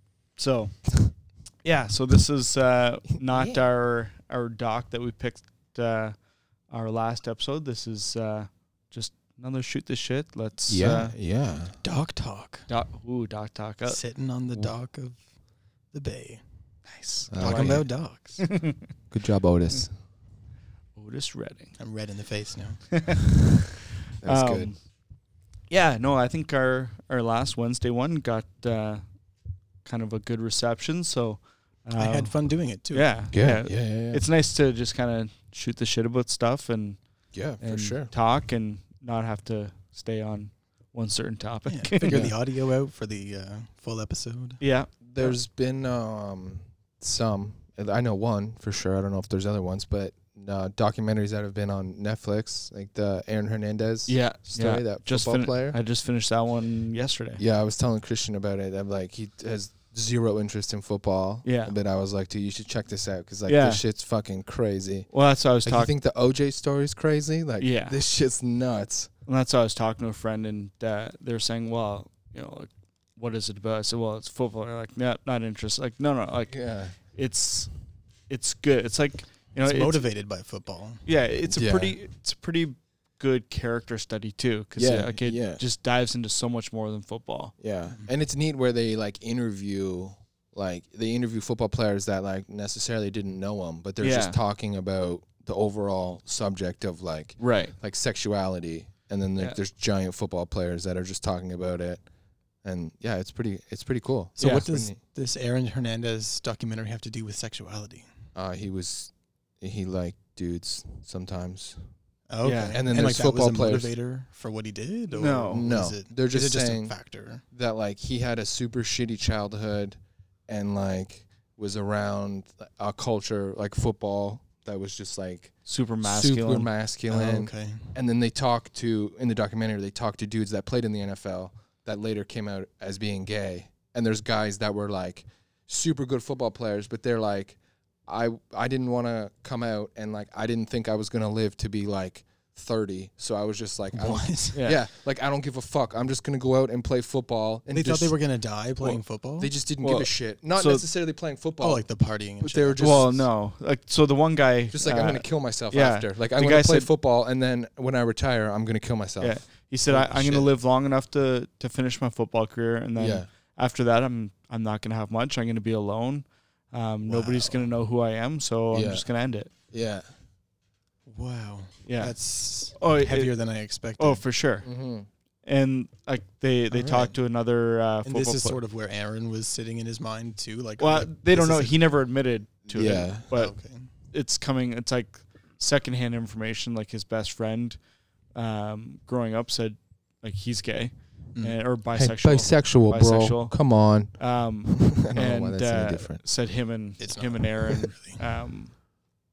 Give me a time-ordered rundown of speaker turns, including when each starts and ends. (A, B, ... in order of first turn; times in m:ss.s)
0:00.4-0:00.7 A
0:01.6-0:06.2 A
0:03.3-0:03.6 B
0:06.7-0:11.2 A
0:10.7-0:11.8 B
0:11.8-0:12.7 C
0:12.7-0:14.0 A
0:13.9-0:15.2 C
0:15.9-0:16.4 C
0:16.9-0:18.9 A
0:17.3-0:17.9 B
0:17.3-0:18.5 C
0:19.1-0:19.9 B
0:21.0-0:21.7 A
0:21.8-0:23.0 C
0:22.9-0:23.2 A
0:24.2-0:24.7 B
0:24.2-0:24.8 A
0:25.7-0:29.0 A
0:29.8-0:32.4 A
0:32.0-0:33.1 C
0:32.9-0:37.0 A
0:33.3-0:34.2 B
0:37.3-0:38.1 B
0:37.6-0:42.3 A
0:41.7-0:44.6 C
0:42.1-0:42.4 B
0:44.6-0:45.4 A
0:45.0-0:55.8 B
0:54.1-0:57.4 A
0:57.4-1:05.1 B
1:01.4-1:01.8 A
1:03.5-1:03.8 A
1:05.1-1:05.9 A
1:05.6-1:09.1 B
1:07.6-1:08.0 A
1:09.3-1:17.7 A
1:16.5-1:17.0 B
1:18.3-1:20.0 A
1:19.6-1:21.0 C
1:21.0-1:27.6 A
1:21.5-1:22.0 B
1:24.8-1:25.6 B
1:27.6-1:42.0 B
1:34.0-1:34.4 A
1:37.4-1:37.8 A
1:42.6-1:45.0 B
1:44.4-1:44.7 A
1:44.4-1:48.1 C
1:48.4-1:51.8 B
1:52.3-1:57.4 C
1:52.4-1:52.8 A
1:52.7-1:53.9 B
1:55.1-1:55.7 A
1:55.5-1:56.9 B
1:57.5-2:28.2 B
2:05.7-2:06.7 A
2:07.1-2:07.9 C
2:23.9-2:24.6 C
2:24.5-2:24.8 A
2:27.7-2:29.5 C
2:28.9-2:33.3 B
2:29.8-2:30.8 A
2:31.6-2:33.0 C
2:32.8-2:36.9 A
2:34.7-2:40.5 B
2:39.2-2:49.5 A
2:43.0-2:43.3 B
2:47.1-2:47.7 C
2:48.7-2:49.1 B
2:49.7-2:50.1 B
2:51.1-2:54.2 C
2:51.9-2:52.2 A
2:52.8-2:53.3 A
2:54.0-2:54.7 A
2:54.6-2:55.1 B
2:55.4-2:58.6 A
2:56.7-2:57.2 C
2:58.0-3:01.9 C
3:00.8-3:03.6 A
3:02.7-3:03.3 B
3:03.3-3:03.9 C
3:04.1-3:07.8 A
3:08.4-3:13.6 A
3:12.0-3:16.2 B
3:14.2-3:18.7 A
3:17.0-3:18.2 C